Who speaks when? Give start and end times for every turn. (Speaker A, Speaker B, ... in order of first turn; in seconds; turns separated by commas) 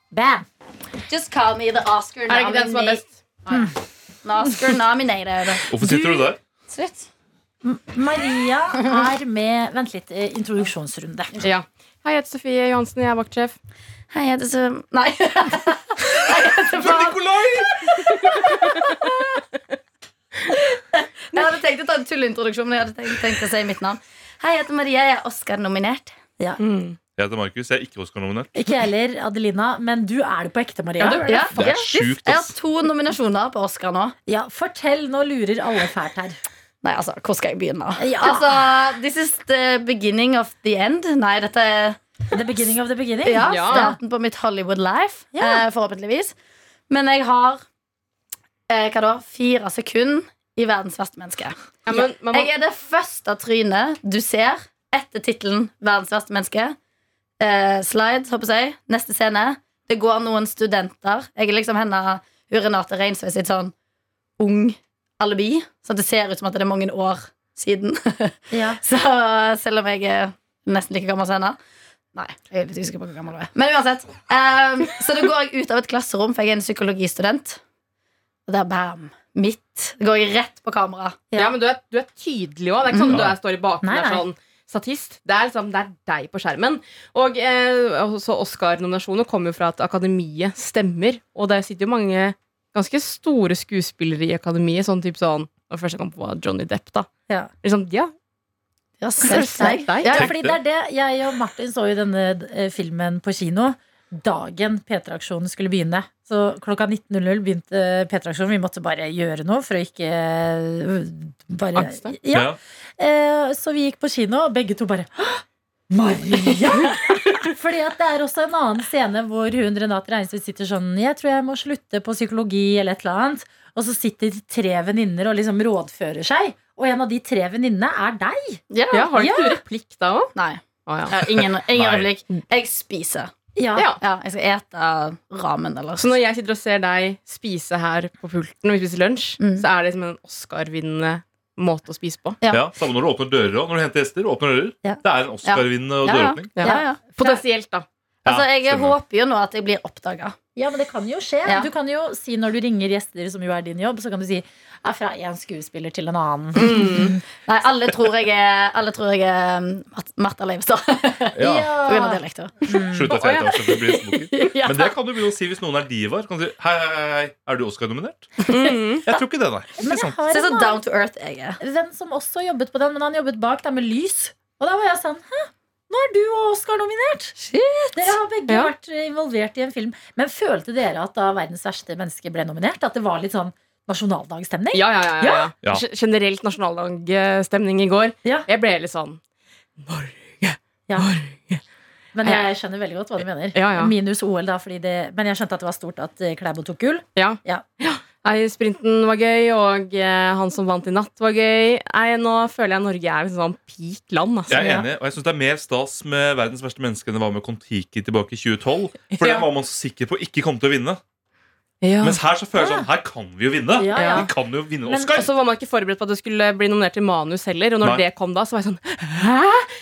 Speaker A: 0.1-0.5, Speaker B: 1.1-3.7, Speaker C: 2.3-3.1, Speaker B: 4.2-5.6, Speaker D: 5.7-6.4, Speaker A: 5.8-6.3, Speaker B: 6.7-7.1, Speaker A: 7.6-11.3, Speaker C: 11.4-13.6, Speaker B: 14.1-18.8, Speaker D: 16.3-17.7, Speaker C: 18.3-19.0, Speaker B: 20.9-26.1, Speaker C: 26.6-27.0, Speaker D: 27.2-28.5, Speaker A: 28.5-32.1, Speaker C: 31.0-31.4, Speaker B: 31.2-34.1, Speaker D: 31.5-32.5, Speaker A: 34.3-36.4, Speaker B: 36.8-42.0, Speaker A: 38.0-38.7, Speaker A: 42.3-44.0, Speaker B: 43.2-46.3, Speaker C: 43.5-43.9, Speaker A: 45.3-45.6, Speaker B: 46.9-47.6, Speaker B: 48.7-56.7, Speaker C: 51.8-52.5, Speaker B: 57.4-63.7, Speaker B: 64.4-71.6, Speaker A: 68.5-68.8, Speaker B: 72.1-77.6, Speaker B: 78.5-81.2, Speaker C: 81.3-97.1, Speaker D: 83.1-83.3, Speaker A: 83.8-84.2, Speaker C: 97.6-98.1, Speaker B: 99.0-99.9, Speaker C: 99.2-100.2, Speaker A: 99.2-128.6, Speaker D: 100.1-100.6, Speaker C: 111.7-112.1, Speaker D: 112.3-112.6, Speaker B: 128.7-129.1, Speaker C: 128.9-130.3, Speaker A: 129.1-129.6, Speaker B: 130.3-133.3, Speaker C: 130.8-131.2, Speaker D: 131.4-132.1, Speaker A: 133.6-133.9, Speaker B: 134.0-136.1, Speaker C: 136.0-142.4, Speaker B: 139.4-139.6, Speaker B: 142.4-142.7, Speaker D: 142.5-146.5, Speaker B: 145.4-147.4, Speaker C: 146.5-147.8, Speaker A: 146.6-146.9, Speaker D: 148.2-148.9, Speaker B: 148.2-150.3, Speaker A: 150.6-156.7, Speaker B: 151.4-151.7, Speaker B: 156.6-162.8, Speaker C: 156.7-157.1, Speaker D: 161.3-161.8, Speaker A: 161.4-163.1, Speaker D: 162.9-170.2, Speaker C: 163.1-164.5, Speaker B: 163.6-164.9, Speaker C: 168.5-169.1, Speaker A: 169.8-170.8, Speaker B: 170.3-171.6, Speaker A: 171.6-177.3, Speaker B: 177.3-178.1, Speaker A: 177.9-185.5, Speaker C: 184.7-189.2, Speaker C: 189.8-191.6, Speaker A: 192.1-197.6, Speaker C: 192.2-192.5, Speaker C: 193.5-193.9, Speaker C: 197.2-204.6, Speaker D: 204.5-211.0, Speaker A: 204.5-204.8, Speaker C: 211.8-212.2, Speaker D: 212.0-215.3, Speaker A: 212.5-212.9, Speaker A: 213.8-214.3, Speaker C: 213.9-214.3, Speaker A: 214.8-215.2, Speaker C: 215.1-219.7, Speaker D: 217.8-218.0